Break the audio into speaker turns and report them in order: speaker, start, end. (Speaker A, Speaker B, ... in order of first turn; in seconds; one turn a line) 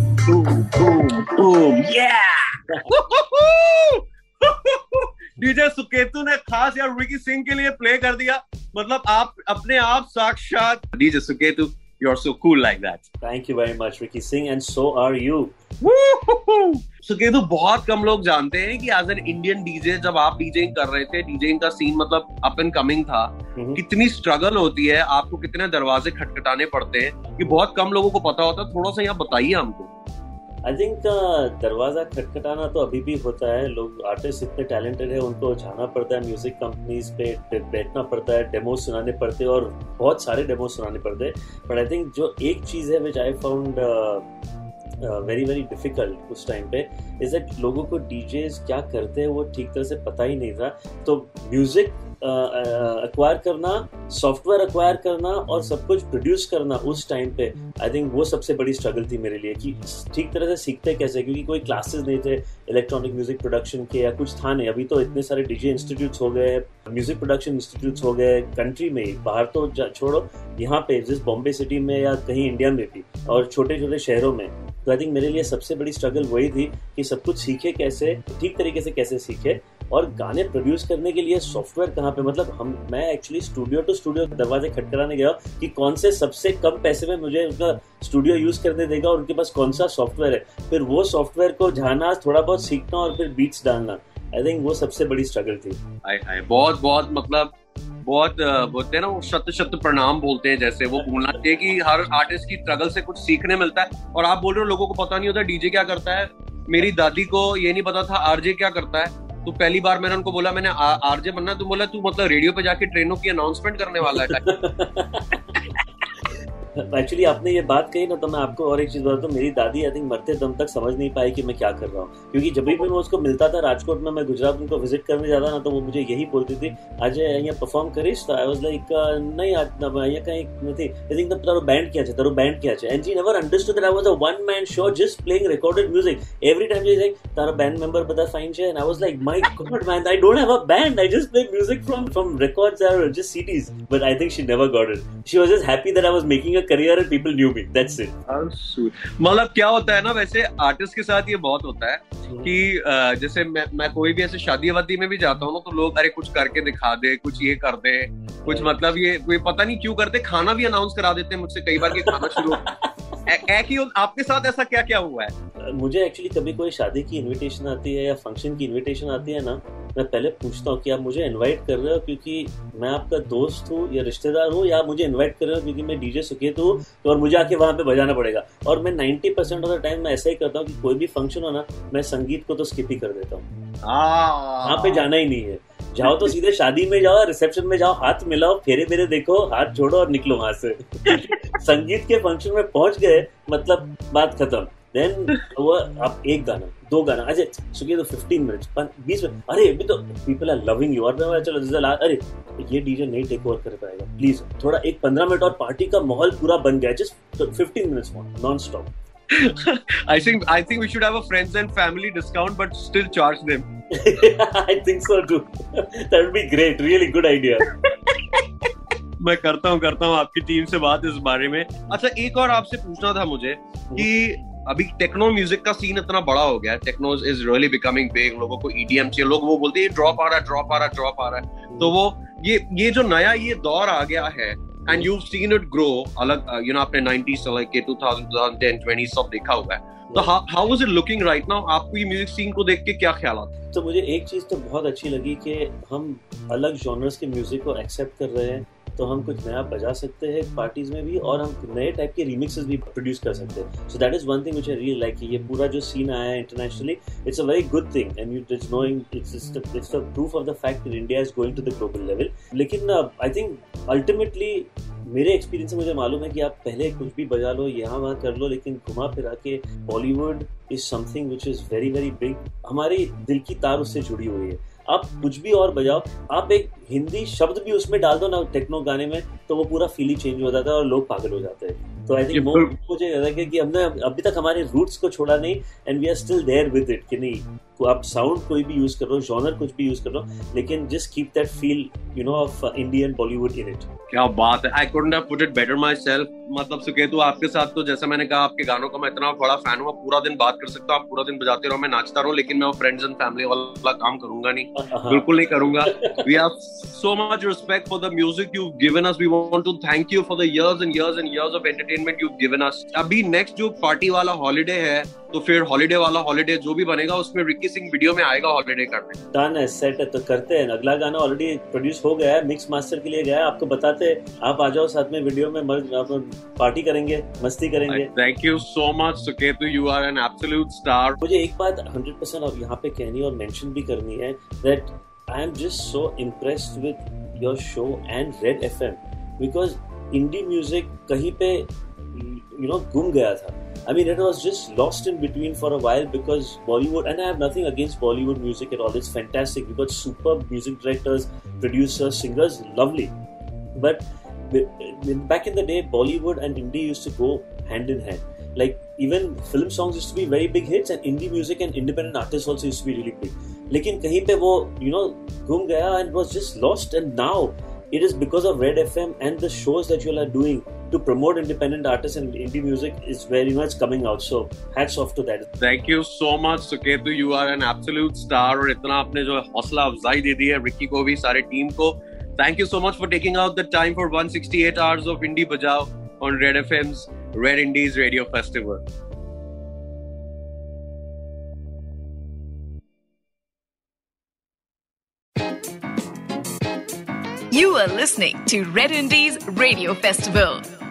Speaker A: 0.3-13.0
Speaker B: 13.2-15.5
Speaker A: 15.8-29.9
Speaker B: 23.5-23.8
Speaker B: 30.6-44.3
Speaker B: 45.0-95.8
Speaker A: 96.0-114.4
Speaker B: 114.0-115.4
Speaker B: 116.7-148.1
Speaker A: 148.3-162.7
Speaker B: 152.2-152.5
Speaker B: 158.5-158.7
Speaker B: 161.9-162.9
Speaker A: 163.3-165.3
Speaker B: 165.6-183.5
Speaker A: 183.8-185.1
Speaker B: 184.6-208.9
Speaker A: 186.0-186.3
Speaker A: 209.3-213.7
Speaker B: 213.9-217.7
Speaker A: 218.1-218.4
Speaker A: 219.2-243.5
Speaker B: 231.7-231.9
Speaker B: 240.1-240.3
Speaker B: 243.7-293.9
Speaker A: 282.3-282.7
Speaker A: 294.1-319.2
Speaker B: 304.7-306.2
Speaker B: 319.3-328.1
Speaker A: 327.9-331.2
Speaker B: 331.2-353.1
Speaker B: 353.7-375.4
Speaker A: 375.6-388.8
Speaker C: 397.5-400.6